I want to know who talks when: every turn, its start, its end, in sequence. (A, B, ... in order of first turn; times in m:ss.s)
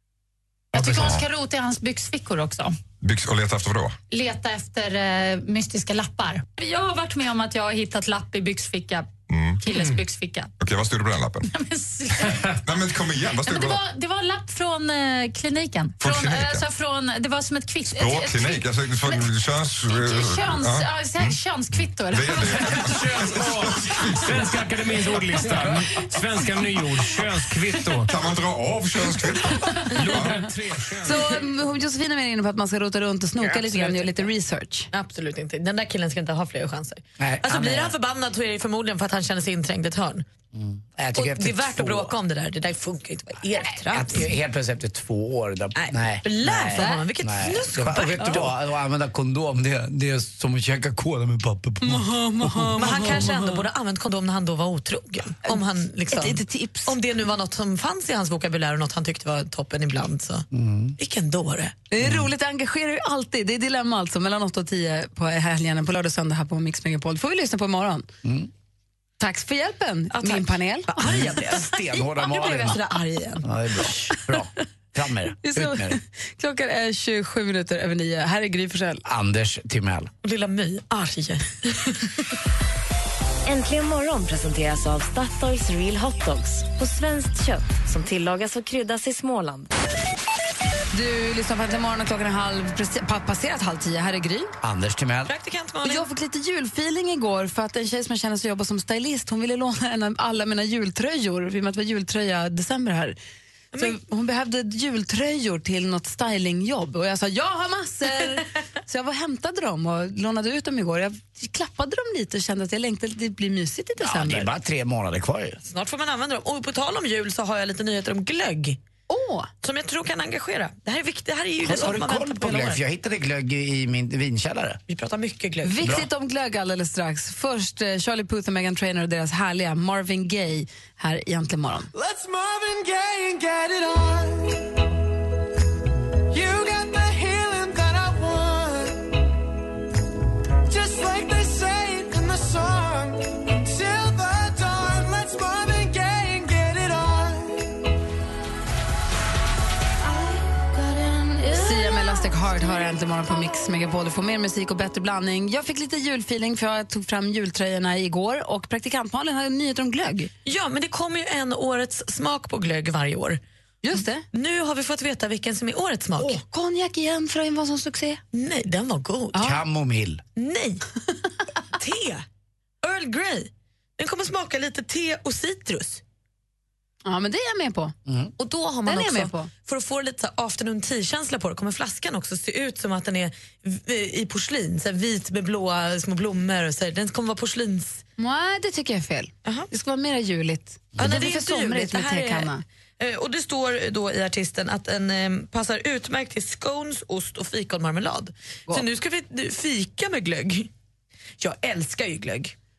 0:00.7-0:02.8 A
0:00.8-0:01.2 B
0:03.0-0:04.0 B
0:04.1-0:09.1 A
0:09.3-0:10.0 B
0:09.6-0:10.5 A
0:10.6-0:11.5 B
0:11.5-0:12.4 A
0:12.1-0:13.8 B
0:13.4-0:19.2 A
0:16.0-0:16.6 B
0:17.9-0:21.4 B
0:19.9-0:23.1 A
0:22.0-0:24.5 B
0:22.4-0:28.2 C
0:28.0-0:30.4 B
0:29.7-0:31.4 C
0:31.0-0:34.9 D
0:33.4-0:34.3 E
0:34.9-0:40.3 E
0:37.2-0:37.9 F
0:40.5-0:42.1 F
0:41.1-0:44.3 E
0:43.7-0:53.1 F
0:45.8-0:48.5 E
0:46.7-0:47.0 D
0:51.8-0:53.5 D
0:52.8-1:00.5 E
0:56.1-0:56.9 D
1:00.5-1:01.0 F
1:01.0-1:01.8 E
1:01.9-1:08.1 D
1:02.0-1:02.3 F
1:08.2-1:08.5 F
1:09.2-1:10.9 D
1:10.1-1:13.5 E
1:11.0-1:12.8 F
1:13.4-1:16.0 F
1:15.4-1:19.0 D
1:19.0-1:20.1 F
1:20.2-1:22.1 E
1:23.5-1:29.7 G
1:30.9-1:34.5 D
1:34.6-1:35.3 F
1:35.3-1:36.1 E
1:35.8-1:43.2 D
1:43.8-1:54.5 D
1:54.0-1:55.6 F
1:55.6-1:58.8 E
1:59.1-1:59.5 D
1:59.6-2:02.8 E
2:01.6-2:04.8 F
2:04.9-2:05.8 E
2:05.6-2:11.9 D
2:05.8-2:06.1 F
2:11.9-2:14.6 H
2:16.3-2:19.1 H
2:20.7-2:27.8 H
2:31.4-2:40.3 D
2:40.4-2:43.4 E
2:43.8-2:44.2 D
2:44.3-2:46.4 E
2:46.2-2:48.2 D
2:48.3-2:49.5 E
2:49.4-2:50.2 F
2:50.4-2:50.8 E
2:51.8-2:52.2 E
2:52.8-2:56.0 E
2:57.0-2:58.0 D
2:58.1-2:58.3 F
2:58.4-3:08.0 E
2:58.9-2:59.5 D
3:08.2-3:12.6 D
3:11.0-3:20.7 E
3:21.4-3:22.5 E